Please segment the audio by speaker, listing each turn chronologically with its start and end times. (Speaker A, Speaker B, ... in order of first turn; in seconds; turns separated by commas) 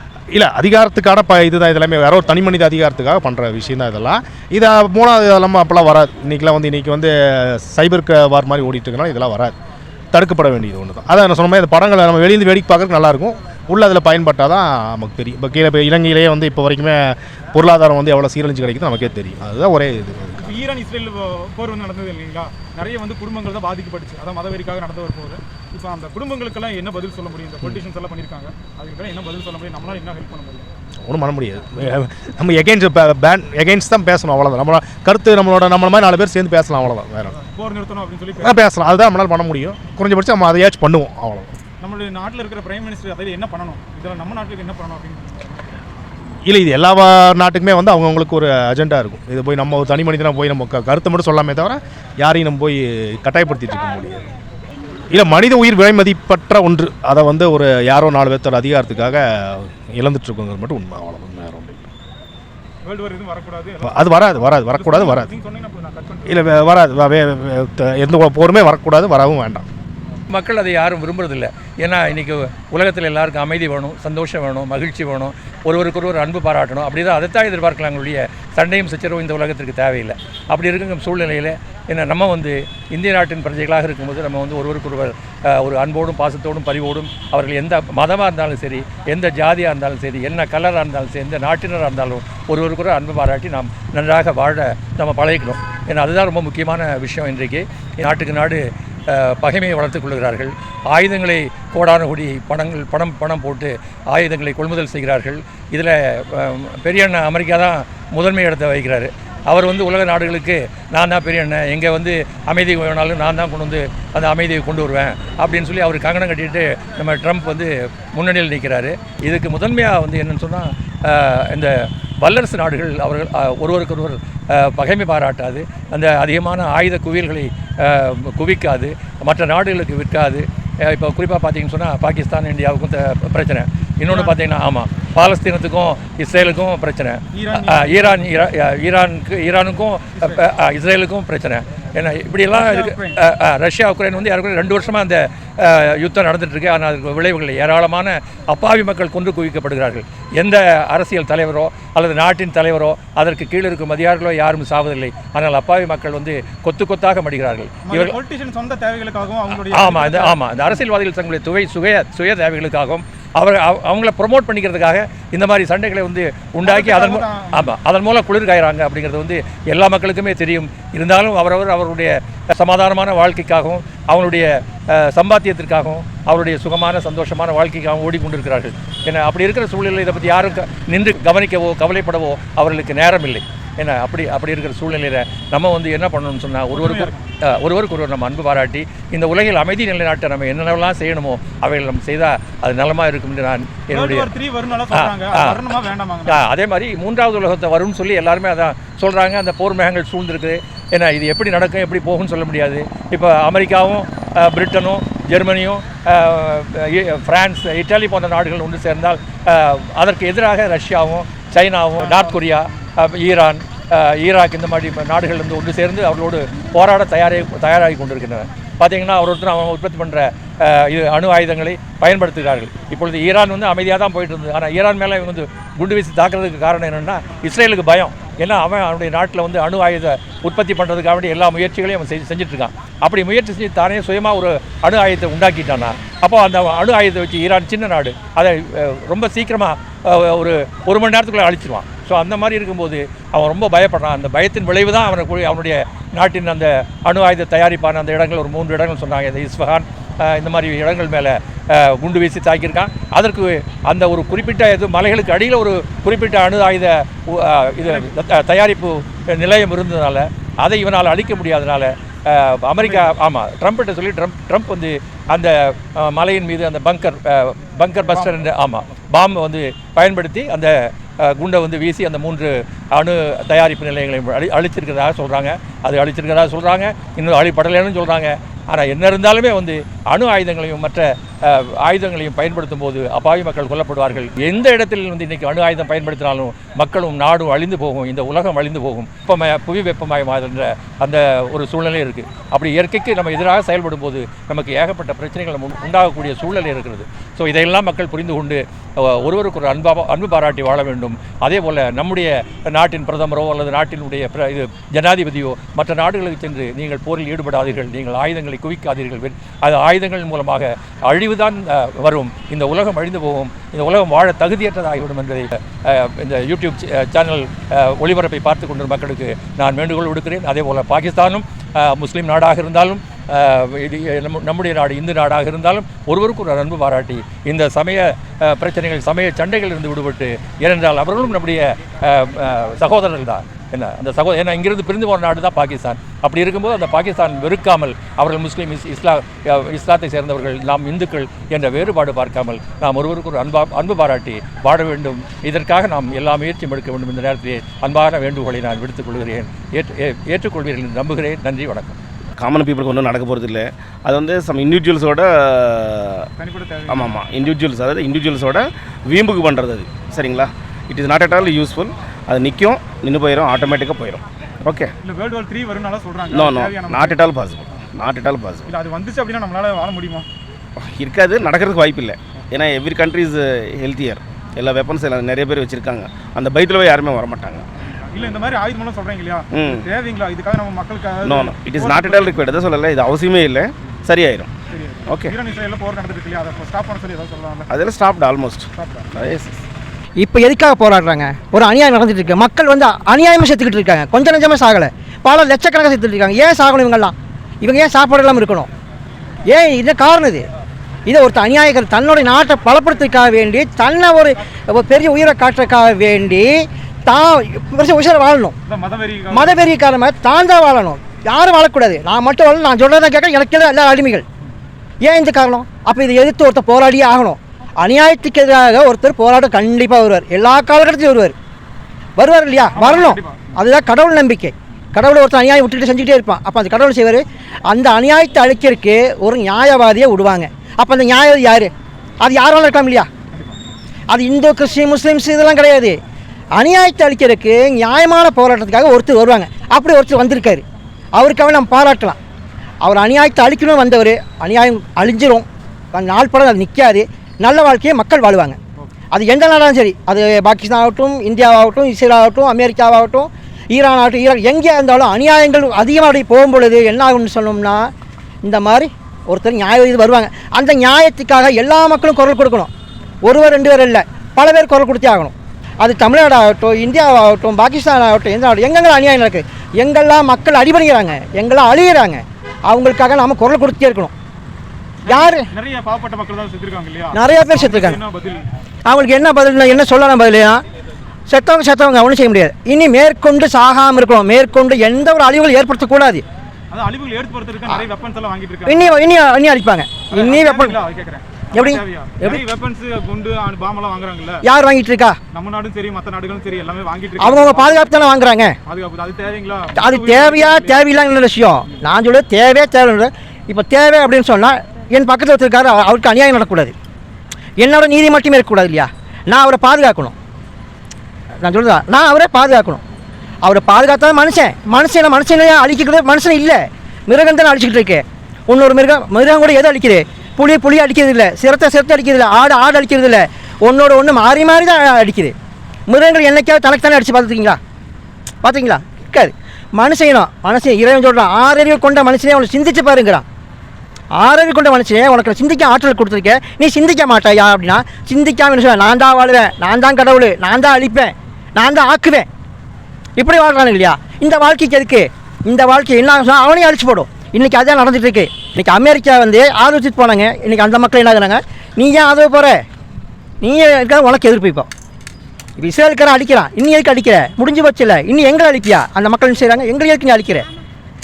Speaker A: 0.3-9.5, Speaker A: 10.1-20.5, Speaker B: 20.4-30.7, Speaker A: 31.0-37.3, Speaker B: 37.3-38.5, Speaker A: 38.4-41.5, Speaker B: 41.8-45.7, Speaker A: 46.4-54.3, Speaker A: 55.1-61.8, Speaker B: 62.8-66.4, Speaker A: 63.8-65.3, Speaker A: 66.2-69.7, Speaker C: 70.3-158.2, Speaker B: 134.1-134.4, Speaker B: 137.3-138.2, Speaker B: 140.2-140.4, Speaker B: 142.5-143.2, Speaker B: 157.9-160.4, Speaker C: 159.7-194.3, Speaker B: 166.6-167.7, Speaker B: 186.7-187.3, Speaker B: 193.9-196.4, Speaker C: 194.9-195.7, Speaker C: 196.2-352.0, Speaker B: 212.0-212.4, Speaker B: 257.8-258.1, Speaker B: 262.8-263.1, Speaker B: 268.1-268.4, Speaker D: 352.4-356.3, Speaker B: 356.4-357.2, Speaker D: 356.9-364.9, Speaker B: 365.0-367.2, Speaker D: 366.3-368.8, Speaker B: 368.7-370.3, Speaker D: 370.8-377.6, Speaker B: 378.1-382.4, Speaker D: 379.5-379.9, Speaker D: 381.2-384.5, Speaker B: 384.7-387.7, Speaker D: 385.1-385.3, Speaker D: 387.7-389.6, Speaker B: 388.8-389.1, Speaker E: 390.2-398.7, Speaker E: 399.5-400.5, Speaker E: 401.1-408.5, Speaker B: 408.7-409.6, Speaker E: 409.3-414.2, Speaker E: 415.0-421.3, Speaker E: 422.2-433.1, Speaker B: 422.7-423.6, Speaker B: 433.3-433.6, Speaker E: 434.1-436.0, Speaker E: 436.5-442.2, Speaker E: 442.8-448.6, Speaker E: 449.1-457.9, Speaker E: 458.4-462.7, Speaker E: 463.2-474.1, Speaker B: 475.1-478.5, Speaker E: 475.1-475.5, Speaker E: 477.1-478.0, Speaker E: 478.9-480.6, Speaker E: 481.3-486.2, Speaker B: 486.7-488.9, Speaker E: 488.7-490.8, Speaker B: 490.1-494.4, Speaker E: 491.5-492.4, Speaker E: 494.4-495.2, Speaker B: 495.3-497.9, Speaker E: 497.2-498.6, Speaker B: 498.7-500.9, Speaker E: 499.8-506.7, Speaker E: 507.6-510.1, Speaker E: 511.4-512.8, Speaker E: 513.4-525.4, Speaker E: 525.9-527.6, Speaker E: 528.4-533.2, Speaker E: 534.1-542.3, Speaker E: 543.2-552.6, Speaker E: 553.4-554.7, Speaker E: 555.6-560.5